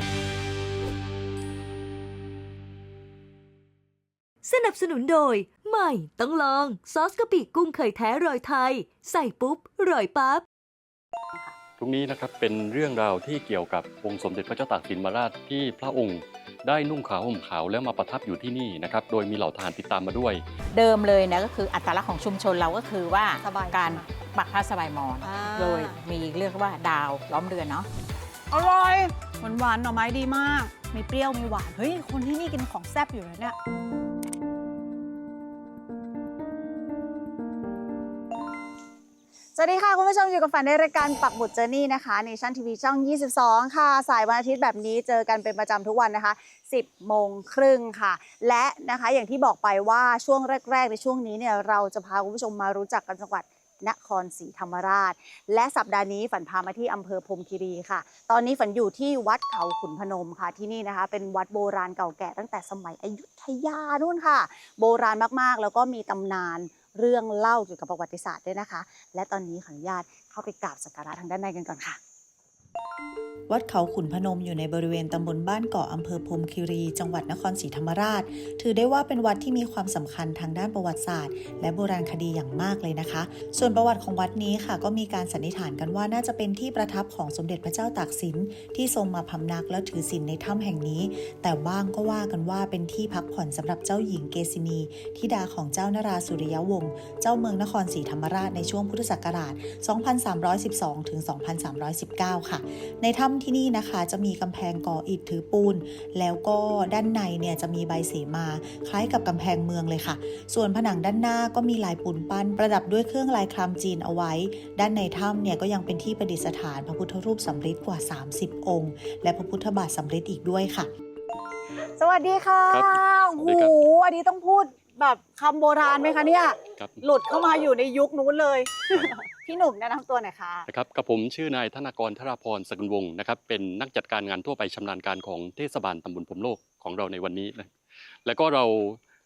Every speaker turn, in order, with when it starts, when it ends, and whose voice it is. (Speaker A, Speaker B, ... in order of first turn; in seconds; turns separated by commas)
Speaker A: 4.4-10.4, Speaker B: 11.8-20.4, Speaker C: 20.7-27.9, Speaker D: 23.4-24.1, Speaker D: 25.2-25.9, Speaker D: 28.5-33.5, Speaker D: 39.5-72.0, Speaker E: 73.5-120.9, Speaker D: 122.0-130.7, Speaker B: 122.7-123.8, Speaker B: 130.7-137.7, Speaker B: 138.2-139.0